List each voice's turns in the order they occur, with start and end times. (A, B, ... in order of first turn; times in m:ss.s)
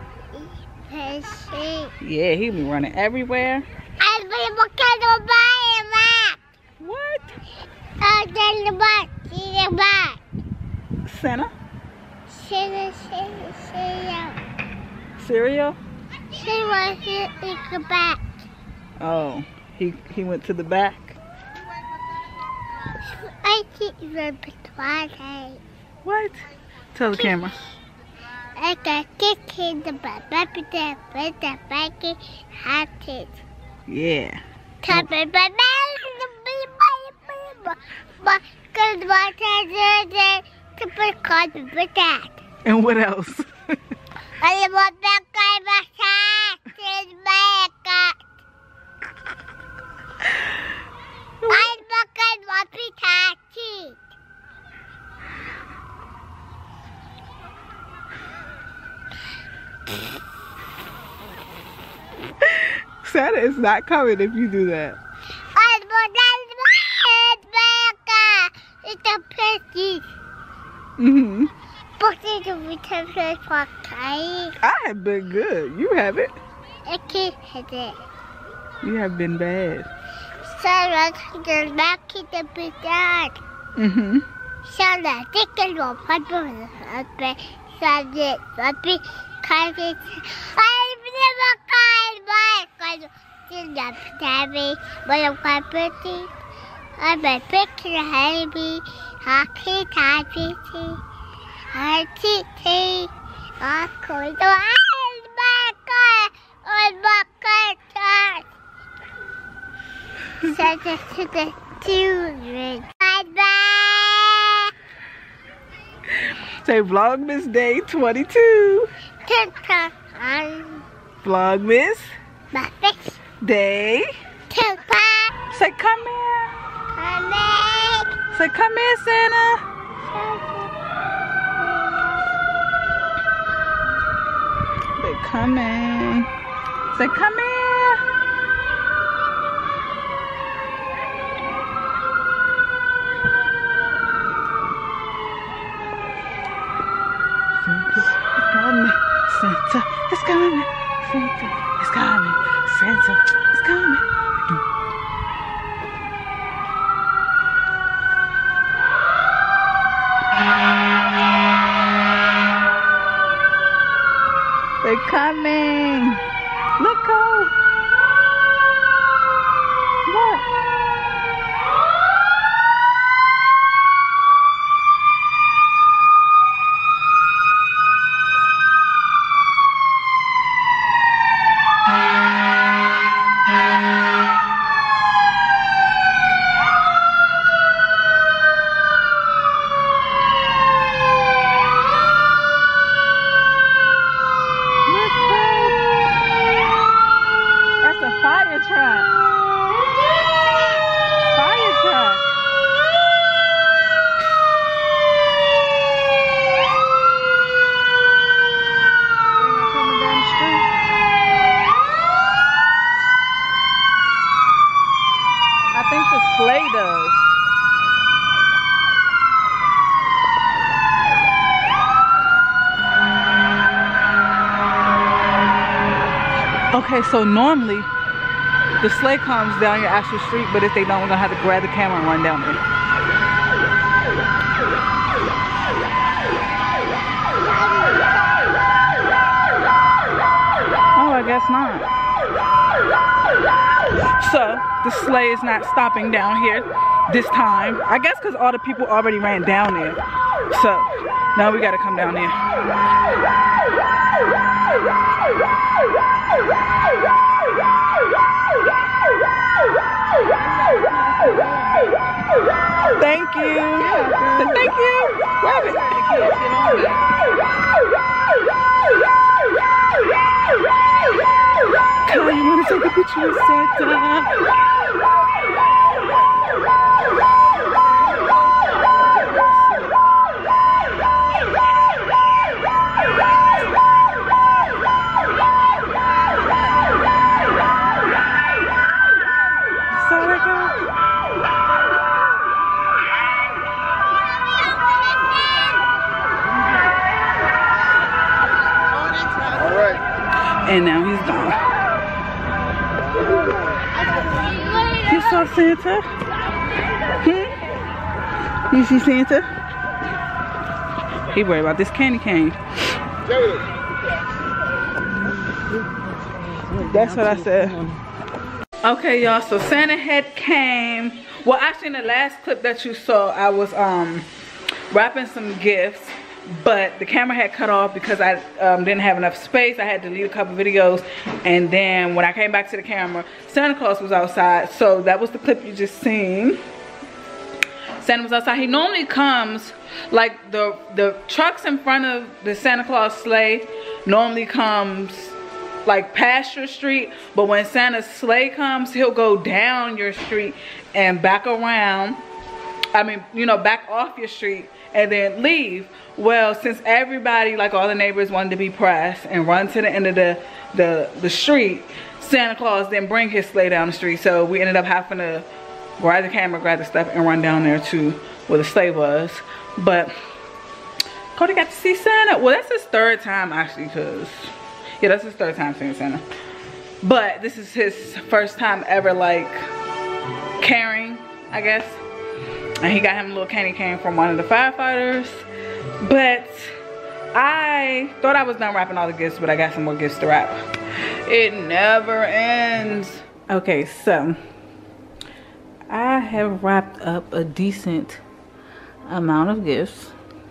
0:00.3-0:01.9 A
0:02.0-0:03.6 B
0:04.0-0:06.4 A
0:06.8-0:07.4 B
0:08.0-0:10.2 A
0:11.0-0:11.5 B
0:12.3-0:14.4 A
0:15.2-0:15.8 B
0:16.3-0:18.4 A
0:19.0-0:21.2 B
0:23.0-0:25.6 A
0:26.0-0:27.6 B
0:28.6-0:33.4 A
0:33.9-0:34.4 B
0:34.8-0:42.4 A
0:42.6-0:43.5 B
0:44.4-0:48.2 A
0:51.5-0:54.0 A
1:02.4-1:05.0 B
1:05.5-1:10.0 A
1:11.0-1:11.5 B
1:12.0-1:14.5 A
1:14.6-1:16.4 B
1:16.8-1:18.0 A
1:18.8-1:19.9 B
1:20.4-1:23.4 A
1:23.8-1:24.2 B
1:24.6-1:36.3 A
1:37.0-1:41.0 A
1:41.7-1:48.4 A
1:50.4-1:54.7 A
1:56.3-1:58.9 B
1:59.2-2:00.8 A
2:01.2-2:02.1 B
2:02.5-2:03.2 A
2:03.4-2:04.1 B
2:04.5-2:05.3 A
2:05.5-2:06.5 B
2:06.9-2:08.2 A
2:08.3-2:09.6 B
2:10.0-2:10.7 A
2:11.3-2:12.2 A
2:15.0-2:16.3 B
2:16.9-2:18.0 B
2:27.6-2:34.6 B
2:44.8-2:46.2 B
2:46.8-2:47.5 B
2:50.0-2:50.4 B
3:14.9-3:15.7 B
3:18.4-3:19.0 B
3:21.5-3:22.1 B
3:35.7-3:37.3 B
3:46.7-3:47.9 B
3:48.8-3:52.6 B
4:01.0-4:01.9 B
4:04.2-4:12.3 B
4:23.0-4:26.8 B
4:32.0-4:34.3 B
4:49.9-4:50.8 B
5:00.6-5:01.6 B
5:05.0-5:06.1 B
5:07.2-5:07.5 B
5:08.7-5:09.5 B
5:11.3-5:12.6 B
5:16.7-5:18.0 B
5:18.8-5:24.3 B
5:24.9-5:36.6 B
5:38.0-5:45.3 B
5:45.8-5:52.2 B
5:52.9-6:05.5 B
6:06.0-6:10.1 B
6:11.3-6:16.2 B
6:17.0-6:19.6 B
6:20.6-6:22.0 B
6:22.8-6:25.4 B
6:26.0-6:26.7 B
6:27.3-6:30.6 B
6:31.2-6:34.4 B
6:35.9-6:38.2 B
6:39.1-6:40.1 B